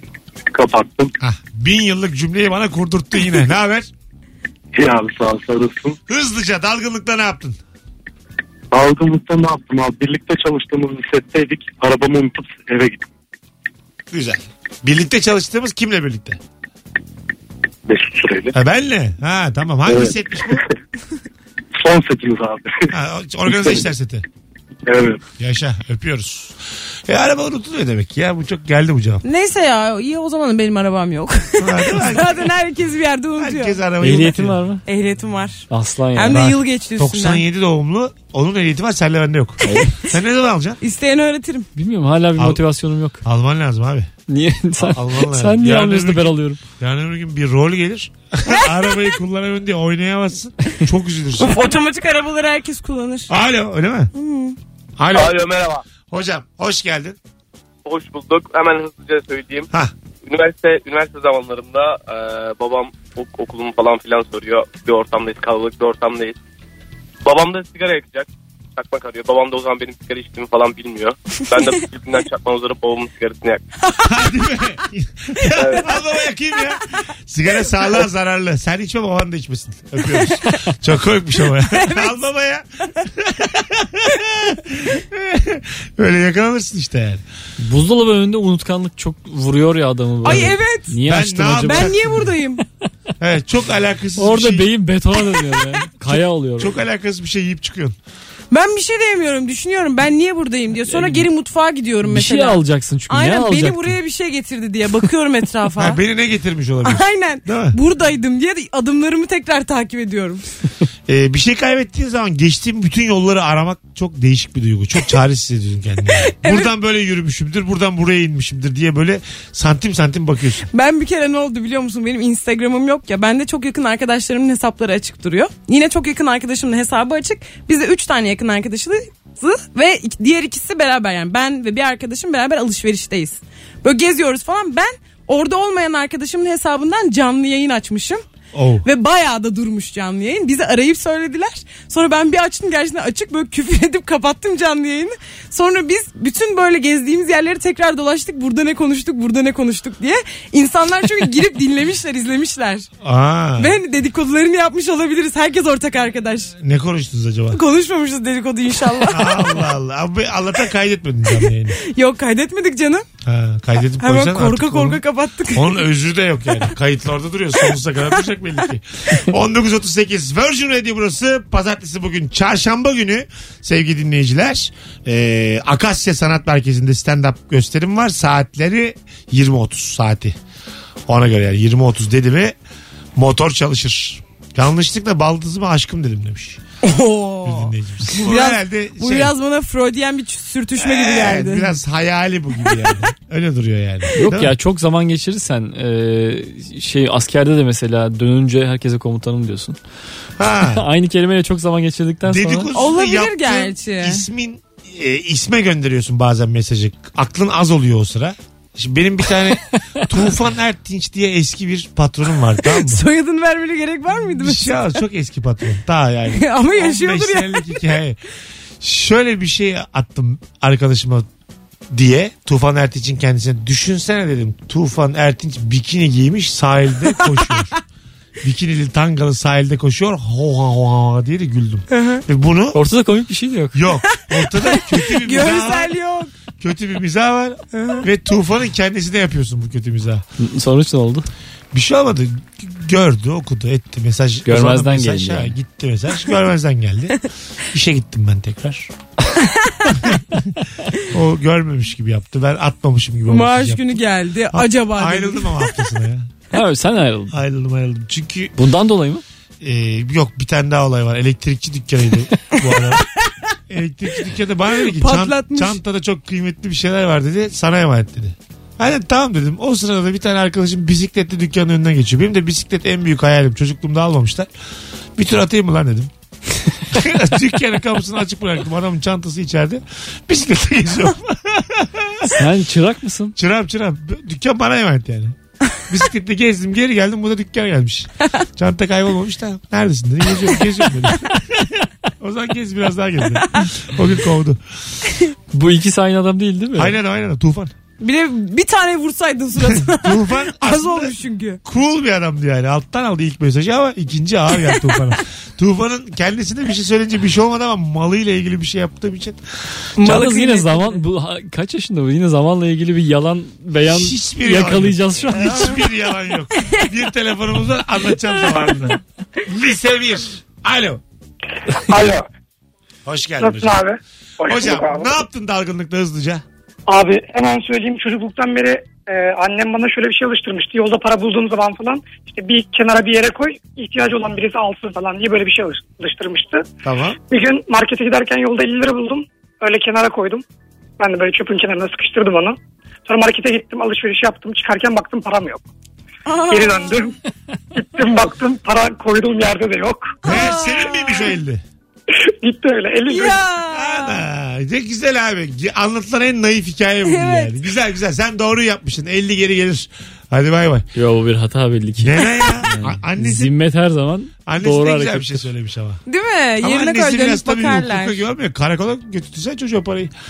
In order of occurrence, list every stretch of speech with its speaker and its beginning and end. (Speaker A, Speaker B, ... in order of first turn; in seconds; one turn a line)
Speaker A: 0.5-1.1
Speaker B: 1.2-3.9
Speaker A: 4.7-6.0
Speaker B: 6.1-7.6
Speaker A: 8.7-13.0
Speaker B: 14.1-16.4
Speaker A: 17.9-18.6
Speaker B: 18.5-20.6
Speaker A: 19.9-20.6
Speaker A: 21.8-22.9
Speaker B: 22.9-24.2
Speaker A: 23.5-23.8
Speaker A: 24.9-25.2
Speaker B: 25.4-26.6
Speaker B: 27.1-29.2
Speaker C: 29.2-33.8
Speaker B: 31.6-32.5
Speaker B: 33.4-34.6
Speaker D: 34.0-34.8
Speaker C: 34.9-37.4
Speaker D: 35.7-36.5
Speaker B: 36.3-40.8
Speaker D: 39.6-40.0
Speaker C: 40.8-41.7
Speaker D: 41.8-43.2
Speaker B: 43.2-44.1
Speaker D: 44.3-46.6
Speaker B: 44.8-51.6
Speaker C: 51.4-53.3
Speaker B: 53.3-54.1
Speaker C: 54.1-54.6
Speaker B: 55.0-55.5
Speaker E: 55.1-55.8
Speaker B: 56.1-57.2
Speaker E: 57.9-59.7
Speaker E: 60.2-66.4
Speaker E: 67.2-73.6
Speaker C: 73.9-74.1
Speaker B: 74.0-87.2
Speaker C: 81.6-82.2
Speaker D: 87.6-92.3
Speaker C: 90.2-91.0
Speaker B: 90.3-92.3
Speaker C: 91.6-92.6
Speaker B: 93.2-94.7
Speaker D: 94.2-96.8
Speaker B: 96.1-98.0
Speaker C: 98.5-106.0
Speaker D: 100.9-101.3
Speaker D: 102.1-104.0
Speaker B: 105.8-107.8
Speaker C: 106.8-110.5
Speaker B: 111.1-120.7
Speaker C: 116.2-116.7
Speaker C: 120.7-138.2
Speaker B: 138.5-138.9
Speaker C: 138.8-152.9
Speaker B: 153.0-153.8
Speaker C: 153.6-156.5
Speaker B: 156.6-157.6
Speaker C: 157.5-159.7
Speaker B: 159.1-161.8
Speaker C: 161.8-163.1
Speaker B: 163.2-165.0
Speaker C: 164.0-165.8
Speaker B: 165.5-180.4
Speaker B: 181.1-182.6
Speaker B: 183.2-186.6
Speaker C: 186.8-191.7
Speaker B: 187.4-189.3
Speaker B: 190.8-194.5
Speaker D: 194.2-199.8
Speaker B: 200.4-200.8
Speaker D: 200.6-202.7
Speaker B: 202.3-213.0
Speaker C: 202.7-204.2
Speaker C: 212.6-215.0
Speaker B: 214.4-218.2
Speaker C: 216.3-217.8
Speaker B: 218.8-221.3
Speaker B: 221.9-227.8
Speaker B: 228.4-232.8
Speaker C: 231.9-232.2
Speaker D: 232.7-233.8
Speaker B: 233.7-235.9
Speaker C: 234.1-236.3
Speaker B: 236.6-240.2
Speaker C: 237.7-238.1
Speaker D: 240.4-241.3
Speaker B: 241.7-248.9
Speaker D: 244.4-245.5
Speaker C: 249.6-249.8
Speaker B: 251.0-254.0
Speaker C: 253.3-255.7
Speaker B: 254.5-256.3
Speaker D: 256.5-257.4
Speaker B: 257.3-258.5
Speaker D: 258.6-259.2
Speaker B: 259.6-263.0
Speaker B: 263.7-274.5
Speaker C: 264.8-265.8
Speaker B: 275.2-276.1
Speaker B: 276.9-282.3
Speaker D: 282.3-283.4
Speaker B: 283.4-285.4
Speaker B: 285.9-294.6
Speaker D: 295.5-297.0
Speaker B: 296.8-297.7
Speaker C: 298.0-301.6
Speaker B: 299.6-309.4
Speaker C: 310.0-311.0
Speaker D: 310.0-315.8
Speaker B: 313.9-321.0
Speaker F: 321.9-322.3
Speaker B: 323.1-323.8
Speaker F: 323.4-325.1
Speaker B: 324.4-326.4
Speaker F: 326.9-336.7
Speaker B: 336.8-337.2
Speaker F: 337.3-340.4
Speaker F: 341.0-345.7
Speaker C: 346.3-347.0
Speaker F: 346.5-347.1
Speaker F: 347.8-350.2
Speaker C: 350.2-351.4
Speaker B: 350.2-351.6
Speaker F: 352.4-353.4
Speaker C: 353.1-354.2
Speaker B: 353.7-360.9
Speaker C: 357.1-357.6
Speaker D: 360.9-365.4
Speaker B: 362.0-363.5
Speaker B: 364.5-366.0
Speaker C: 366.1-368.2
Speaker B: 366.6-370.1